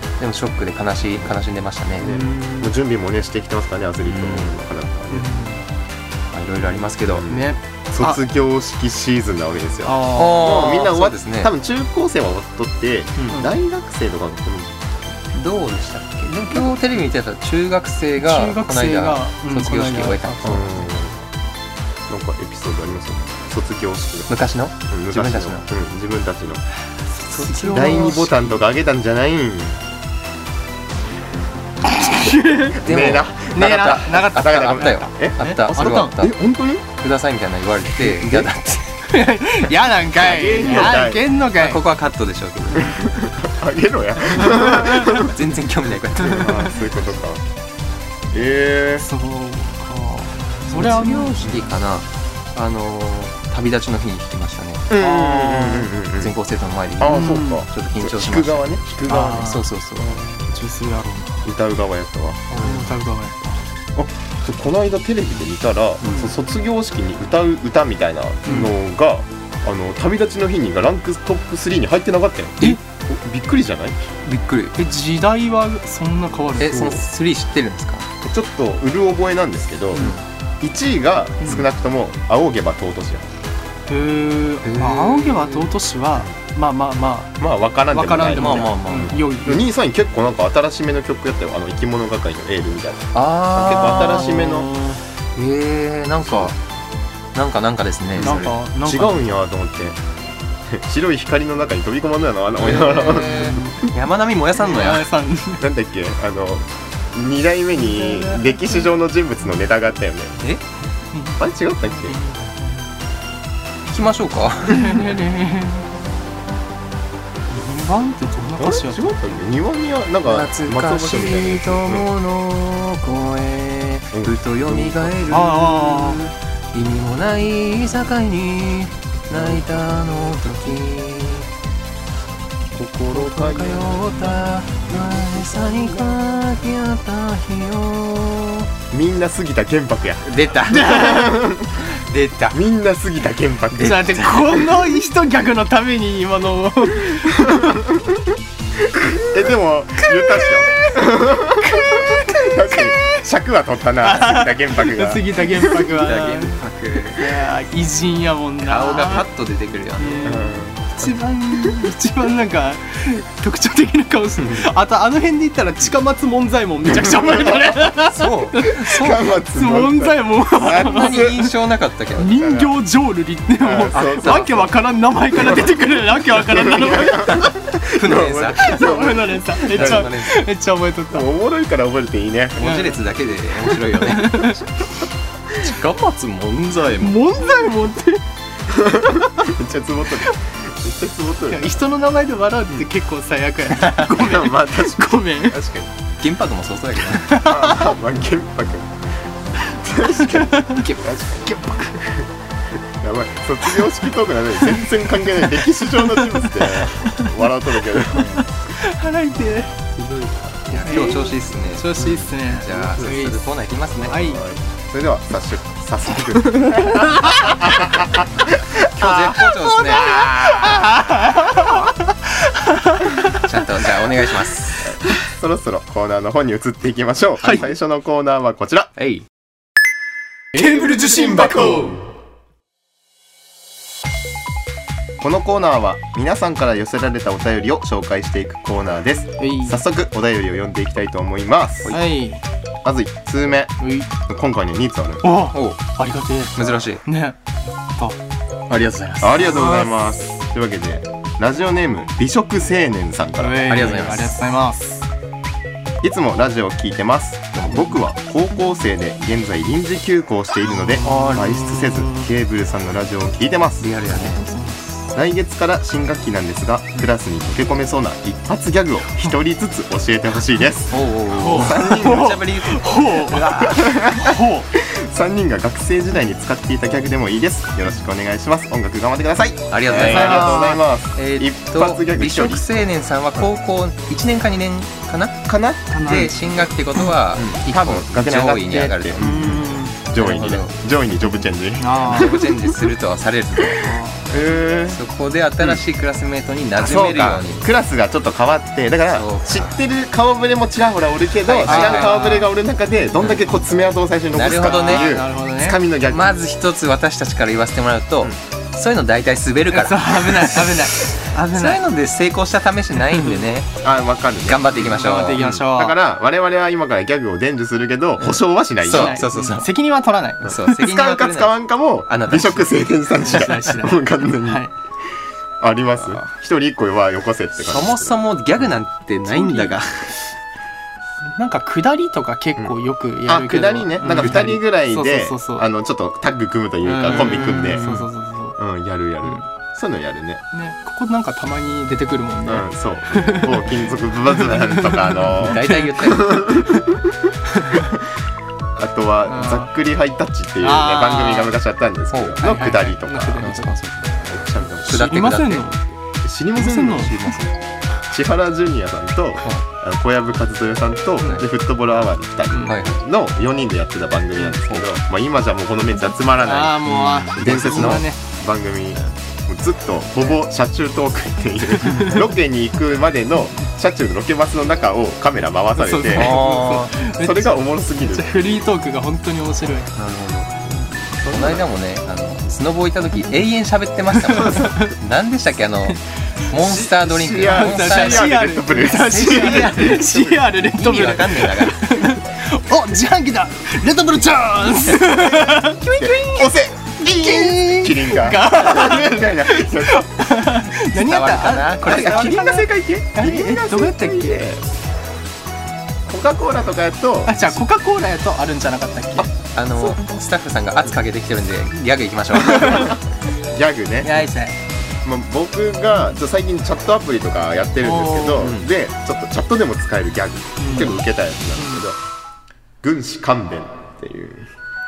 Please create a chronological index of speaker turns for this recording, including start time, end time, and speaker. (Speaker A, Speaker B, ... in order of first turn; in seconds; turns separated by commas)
Speaker A: 0.2-2.1, Speaker B: 2.0-5.3, Speaker C: 2.0-2.8, Speaker A: 4.0-4.6, Speaker C: 5.1-5.6, Speaker A: 6.3-7.3, Speaker B: 7.1-15.2, Speaker C: 7.3-8.2, Speaker C: 9.8-10.5, Speaker A: 10.1-11.5, Speaker A: 15.3-20.7, Speaker C: 18.2-21.1, Speaker B: 20.4-21.2, Speaker B: 22.1-24.3, Speaker A: 24.3-25.6, Speaker B: 24.9-26.6, Speaker C: 27.2-28.6, Speaker A: 27.3-28.4, Speaker B: 27.7-29.8, Speaker C: 31.8-32.8, Speaker A: 32.7-36.4, Speaker B: 32.8-35.4, Speaker C: 33.5-36.2, Speaker B: 36.1-36.9, Speaker A: 37.0-39.0, Speaker C: 38.0-38.4, Speaker B: 38.2-38.5, Speaker C: 39.1-41.8, Speaker B: 40.1-41.2, Speaker A: 40.7-42.9, Speaker B: 42.7-45.3, Speaker C: 44.3-45.2, Speaker A: 45.1-46.9, Speaker B: 46.2-47.4, Speaker C: 46.3-46.6, Speaker B: 48.3-49.1, Speaker C: 49.0-51.4, Speaker A: 50.7-54.9, Speaker B: 54.9-56.3, Speaker C: 55.0-55.9, Speaker A: 56.2-60.2, Speaker B: 57.0-59.5, Speaker C: 57.0-57.6, Speaker C: 59.1-59.6, Speaker B: 60.0-60.4, Speaker C: 60.5-61.5, Speaker B: 61.4-62.5, Speaker C: 62.5-63.6, Speaker A: 62.5-63.0, Speaker B: 63.9-74.1, Speaker C: 66.0-66.3, Speaker C: 68.4-68.7, Speaker A: 74.2-74.8, Speaker C: 74.8-77.0, Speaker A: 76.6-78.1, Speaker B: 78.2-83.3, Speaker A: 80.0-80.2, Speaker C: 83.9-87.4, Speaker A: 84.6-85.7, Speaker B: 87.4-94.7, Speaker C: 87.9-89.7, Speaker A: 88.3-89.2, Speaker A: 93.1-94.6, Speaker C: 94.1-95.0, Speaker A: 95.3-96.6, Speaker B: 96.2-96.5, Speaker A: 97.3-98.5, Speaker B: 98.1-100.0, Speaker C: 98.2-99.3, Speaker B: 100.7-103.8, Speaker A: 102.6-105.1, Speaker C: 102.7-103.8, Speaker C: 104.6-105.7, Speaker B: 105.6-110.4, Speaker C: 107.8-108.5, Speaker C: 111.1-112.9, Speaker B: 111.4-112.2, Speaker A: 113.9-115.1, Speaker C: 114.7-115.9, Speaker C: 117.5-119.4, Speaker B: 118.6-122.1, Speaker A: 120.2-131.5, Speaker B: 124.1-125.2, Speaker C: 125.3-126.2, Speaker B: 129.3-129.9, Speaker B: 132.7-136.1, Speaker A: 133.1-138.7, Speaker B: 138.9-141.9, Speaker A: 140.2-142.6, Speaker C: 140.7-141.3, Speaker B: 142.5-144.5, Speaker C: 143.7-147.8, Speaker A: 143.8-144.5, Speaker B: 147.4-148.2, Speaker B: 148.8-155.6, Speaker C: 150.1-153.2, Speaker C: 154.0-156.6, Speaker A: 155.8-157.4, Speaker C: 157.1-159.2, Speaker A: 158.6-160.4, Speaker C: 160.0-171.5, Speaker B: 160.2-160.9, Speaker B: 167.0-167.5, Speaker A: 167.9-169.2, Speaker B: 168.9-171.4, Speaker A: 170.5-172.7, Speaker C: 172.2-177.5, Speaker B: 173.6-174.6, Speaker A: 173.9-174.7, Speaker B: 175.4-175.7, Speaker B: 176.3-180.1, Speaker A: 177.3-178.9, Speaker C: 178.0-181.2, Speaker A: 179.6-180.5, Speaker B: 181.1-182.7, Speaker A: 182.6-184.7, Speaker C: 182.6-183.0, Speaker C: 184.0-184.6, Speaker A: 185.5-187.2, Speaker C: 187.0-188.2, Speaker B: 188.7-191.7, Speaker C: 191.5-195.6, Speaker A: 193.8-194.0, Speaker B: 194.1-195.9, Speaker A: 196.2-197.4, Speaker C: 197.1-197.9, Speaker B: 197.4-199.0, Speaker B: 199.6-208.4, Speaker C: 200.0-200.8, Speaker A: 200.8-201.0, Speaker C: 206.1-207.3, Speaker C: 208.1-209.7, Speaker B: 209.9-211.1, Speaker A: 210.7-214.3, Speaker C: 210.8-213.4, Speaker C: 214.0-214.4, Speaker B: 214.1-221.0, Speaker C: 216.4-217.5, Speaker A: 218.8-220.1, Speaker C: 219.9-221.9, Speaker C: 222.7-223.4, Speaker A: 223.3-224.8, Speaker B: 224.8-228.9, Speaker A: 229.0-229.2, Speaker C: 230.5-232.0, Speaker B: 230.5-232.1, Speaker B: 235.2-242.0, Speaker C: 239.4-239.8, Speaker C: 241.9-242.4, Speaker B: 242.8-243.8, Speaker C: 243.8-244.1, Speaker B: 244.3-245.2, Speaker C: 245.2-248.2, Speaker A: 245.5-245.8, Speaker A: 246.5-247.0, Speaker A: 248.7-249.3, Speaker B: 249.2-253.8, Speaker C: 249.3-249.9, Speaker C: 253.4-254.8, Speaker A: 253.7-254.4, Speaker B: 256.0-263.9, Speaker C: 260.8-262.3, Speaker A: 263.8-264.4, Speaker C: 264.1-265.1, Speaker B: 265.1-272.4, Speaker A: 270.9-273.9, Speaker C: 271.3-274.7, Speaker B: 273.6-282.9, Speaker A: 279.7-289.6, Speaker C: 279.9-280.8, Speaker B: 285.5-286.0, Speaker C: 285.9-286.4, Speaker B: 287.4-292.7, Speaker C: 289.2-290.0, Speaker A: 290.1-290.8, Speaker C: 291.8-292.4, Speaker A: 292.1-293.9, Speaker B: 293.6-295.0, Speaker C: 293.8-294.2, Speaker A: 294.9-297.7, Speaker B: 296.8-306.3, Speaker A: 299.1-299.8, Speaker A: 301.4-302.3, Speaker C: 301.6-302.5, Speaker A: 304.3-305.1, Speaker C: 304.5-305.8, Speaker A: 306.1-313.8, Speaker C: 309.7-311.8, Speaker B: 313.8-314.8, Speaker A: 314.4-315.6, Speaker C: 314.7-315.9, Speaker B: 315.4-319.3, Speaker A: 318.2-319.7, Speaker C: 318.9-320.8, Speaker A: 320.4-323.6, Speaker B: 320.4-324.6, Speaker C: 323.2-324.7, Speaker B: 325.6-328.2, Speaker A: 327.6-330.3, Speaker C: 329.3-329.8, Speaker C: 331.3-335.6, Speaker B: 333.2-337.9, Speaker A: 334.1-334.4, Speaker C: 336.8-338.6, Speaker A: 337.1-338.1, Speaker B: 338.6-340.4, Speaker C: 340.5-343.7, Speaker B: 342.4-347.1, Speaker C: 344.3-346.8, Speaker A: 345.4-346.5, Speaker C: 347.5-347.9, Speaker B: 348.8-353.5, Speaker C: 349.3-349.7, Speaker C: 350.6-351.5, Speaker A: 352.1-352.4, Speaker C: 352.4-353.7, Speaker A: 353.4-354.1, Speaker B: 354.1-354.9, Speaker A: 354.8-355.6, Speaker C: 354.8-355.8, Speaker B: 356.2-357.4, Speaker C: 356.5-357.3, Speaker A: 357.1-357.4, Speaker B: 358.1-376.4, Speaker C: 362.5-362.8, Speaker A: 362.6-363.0, Speaker C: 366.4-368.2, Speaker A: 366.8-368.0, Speaker C: 371.8-372.2, Speaker C: 375.8-379.9, Speaker A: 376.1-376.9, Speaker B: 377.0-378.3, Speaker A: 379.9-380.7, Speaker B: 381.1-381.7, Speaker A: 381.2-392.1, Speaker C: 384.2-384.9, Speaker B: 386.5-390.0, Speaker C: 387.4-396.5, Speaker B: 395.6-400.0, Speaker C: 397.0-404.4, Speaker A: 400.8-402.5, Speaker B: 401.8-404.6, Speaker B: 406.1-407.6, Speaker C: 407.2-409.3, Speaker A: 409.4-412.9, Speaker B: 412.5-412.9, Speaker C: 412.5-412.9, Speaker B: 413.5-414.1, Speaker C: 414.0-414.6, Speaker B: 415.0-422.0, Speaker C: 417.8-418.5, Speaker A: 418.4-418.7, Speaker C: 420.6-420.9, Speaker C: 421.6-421.8, Speaker B: 422.8-424.5